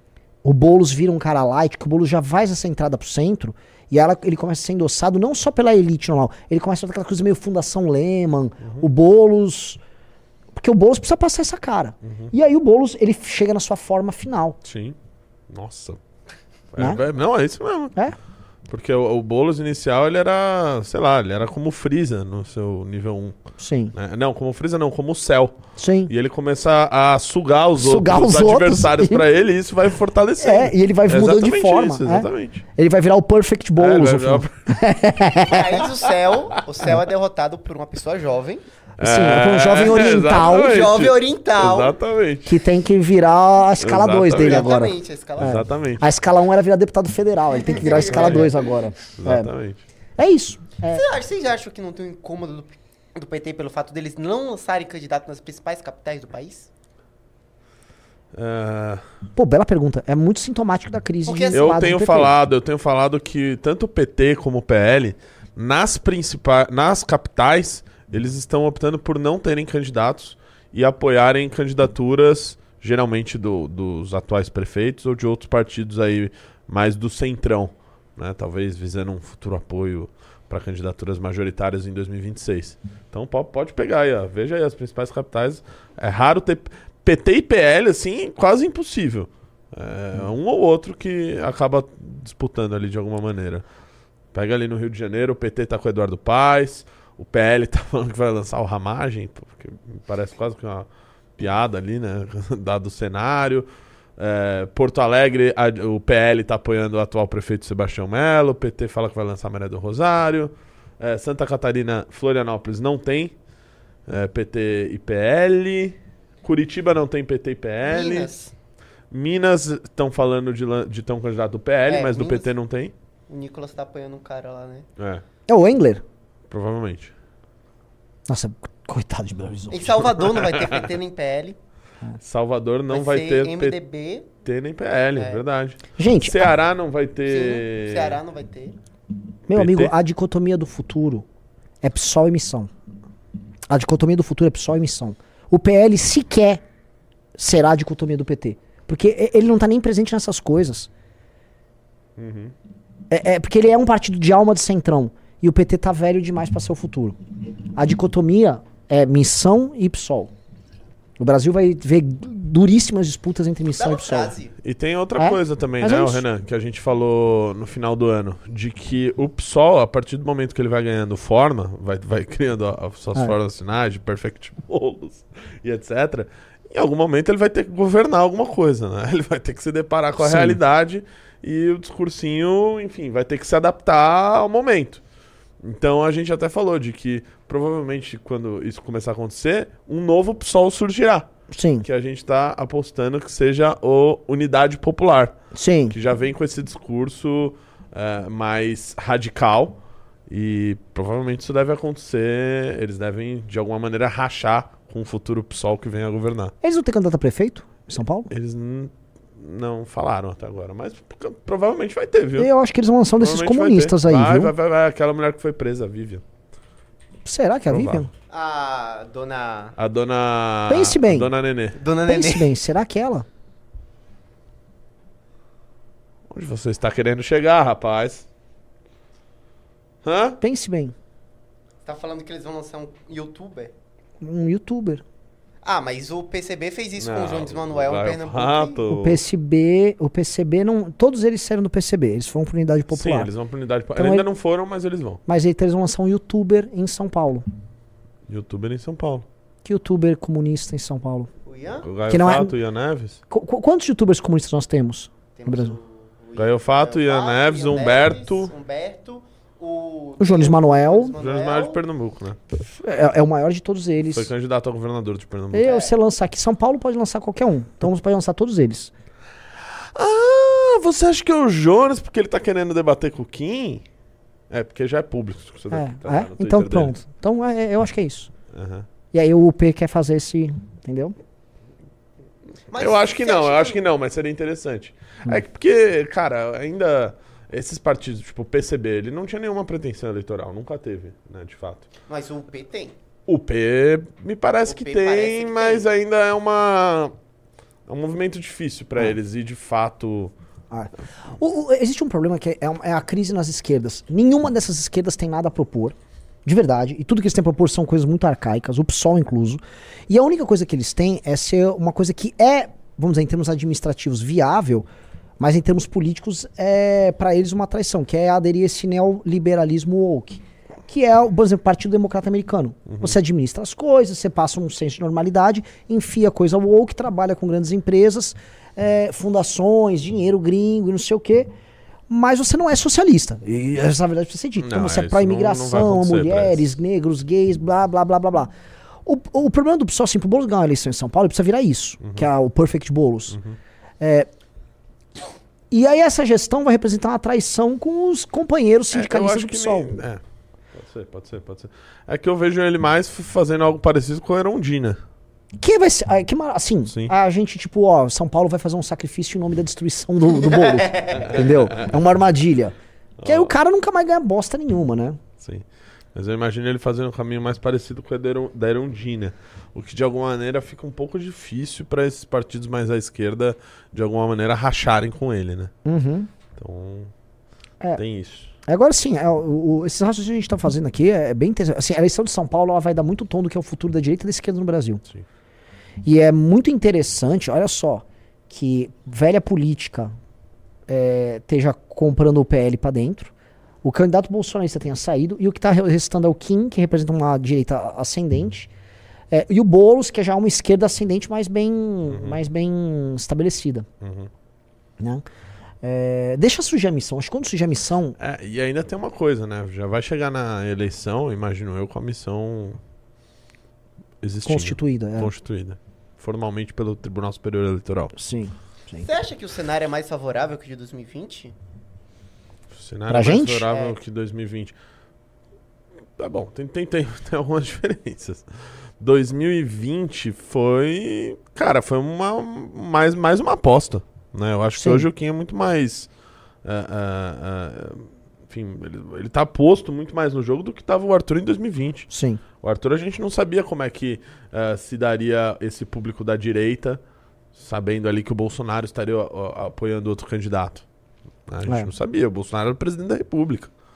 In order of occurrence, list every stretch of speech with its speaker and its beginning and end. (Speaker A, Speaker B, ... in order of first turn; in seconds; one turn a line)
Speaker A: 0.4-9.8
Speaker B: 8.6-8.9
Speaker A: 10.5-14.6
Speaker B: 12.0-12.3
Speaker B: 14.6-14.9
Speaker B: 15.5-16.0
Speaker B: 16.7-18.0
Speaker B: 18.7-23.4
Speaker A: 23.6-23.9
Speaker B: 23.9-32.6
Speaker A: 25.8-26.1
Speaker A: 27.8-29.2
Speaker A: 30.4-35.9
Speaker B: 33.8-34.5
Speaker C: 35.4-38.6
Speaker A: 39.0-40.9
Speaker B: 39.0-42.6
Speaker C: 40.3-42.0
Speaker A: 42.5-49.5
Speaker B: 43.8-44.6
Speaker C: 44.2-45.5
Speaker B: 45.4-46.0
Speaker C: 47.7-48.5
Speaker B: 48.1-48.5
Speaker B: 49.2-49.8
Speaker A: 50.2-51.0
Speaker C: 50.9-56.7
Speaker B: 58.3-59.0
Speaker A: 59.4-62.3
Speaker C: 61.2-61.7
Speaker B: 61.5-93.7
Speaker B: 94.3-100.9
Speaker B: 101.4-113.3
Speaker B: 114.1-118.3
Speaker C: 117.8-118.5
Speaker B: 119.1-122.9
Speaker C: 121.9-122.5
Speaker C: 123.3-124.8
Speaker B: 125.0-125.2
Speaker A: 125.5-126.0
Speaker B: 126.5-127.1
Speaker A: 128.3-130.1
Speaker C: 129.7-131.6
Speaker B: 130.2-130.8
Speaker B: 132.2-133.8
Speaker C: 132.9-134.3
Speaker B: 134.4-138.2
Speaker C: 135.2-135.4
Speaker A: 136.0-136.5
Speaker C: 137.3-138.8
Speaker B: 139.5-139.9
Speaker A: 139.5-141.2
Speaker A: 141.8-142.7
Speaker A: 143.7-146.6
Speaker A: 147.3-150.9
Speaker B: 152.2-152.5
Speaker A: 153.1-157.2
Speaker A: 157.7-160.3
Speaker A: 161.2-164.3
Speaker C: 163.8-164.5
Speaker B: 164.6-185.0
Speaker A: 165.2-166.2
Speaker A: 180.2-180.6
Speaker B: 185.6-191.3
Speaker A: 191.5-191.8
Speaker B: 191.8-195.4
Speaker A: 195.5-195.9
Speaker B: 195.9-206.5
Speaker A: 206.6-208.3
Speaker B: 208.3-212.5
Speaker A: 212.4-214.5
Speaker B: 213.2-216.2
Speaker A: 217.2-218.1
Speaker B: 217.7-218.0
Speaker C: 218.3-219.7
Speaker B: 219.8-221.8
Speaker A: 220.7-221.3
Speaker C: 221.8-222.5
Speaker A: 222.1-223.2
Speaker B: 226.3-228.2
Speaker B: 230.0-230.4
Speaker A: 230.4-230.9
Speaker C: 231.8-233.7
Speaker A: 234.2-235.0
Speaker C: 235.6-238.8
Speaker B: 237.0-239.2
Speaker A: 238.9-243.3
Speaker B: 242.9-245.2
Speaker A: 243.9-244.2
Speaker A: 245.2-247.4
Speaker B: 248.3-249.2
Speaker A: 249.6-251.3
Speaker C: 251.4-251.9
Speaker B: 251.8-253.2
Speaker A: 252.1-252.5
Speaker A: 253.3-255.8
Speaker C: 255.3-261.8
Speaker B: 256.4-258.5
Speaker A: 260.2-261.1
Speaker B: 261.2-262.4
Speaker A: 262.6-264.3
Speaker B: 264.1-265.7
Speaker A: 265.5-268.9
Speaker C: 265.5-265.9
Speaker B: 269.9-273.8
Speaker B: 274.5-276.9
Speaker A: 275.7-278.3
Speaker B: 278.5-278.9
Speaker A: 279.1-281.1
Speaker C: 282.7-283.8
Speaker B: 282.7-291.9
Speaker C: 292.1-292.9
Speaker B: 293.3-297.1
Speaker C: 294.7-295.9
Speaker B: 297.9-300.3
Speaker A: 300.7-314.9
Speaker A: 315.4-331.5
Speaker B: 322.9-323.2
Speaker A: 332.1-338.5
Speaker B: 334.6-336.7
Speaker A: 339.0-343.4
Speaker B: 342.0-342.3
Speaker B: 343.3-343.6
Speaker A: 344.0-344.3
Speaker A: 345.7-350.0
Speaker B: 348.9-350.2
Speaker B: 350.7-355.0
Speaker A: 355.6-365.2
Speaker B: 356.9-357.1
Speaker B: 361.1-361.9
Speaker B: 363.2-363.5
Speaker B: 365.4-375.7
Speaker A: 375.8-376.3
Speaker B: 376.6-377.1
Speaker B: 377.9-378.5
Speaker A: 378.7-385.0
Speaker A: 386.0-390.1
Speaker A: 390.9-393.3
Speaker A: 393.8-398.7
Speaker A: 399.3-403.9
Speaker B: 402.1-402.4
Speaker B: 404.0-404.3
Speaker A: 405.8-408.1
Speaker B: 408.2-412.8
Speaker B: 414.2-418.1
Speaker A: 414.4-415.3
Speaker A: 418.1-419.1
Speaker C: 419.0-421.5
Speaker B: 422.7-424.7
Speaker A: 423.1-423.7
Speaker C: 423.7-423.9
Speaker B: 426.2-428.4
Speaker B: 429.0-436.1
Speaker A: 434.8-435.1
Speaker B: 436.6-442.1
Speaker A: 442.1-442.4
Speaker B: 442.6-447.0
Speaker B: 447.5-450.8
Speaker B: 451.5-453.7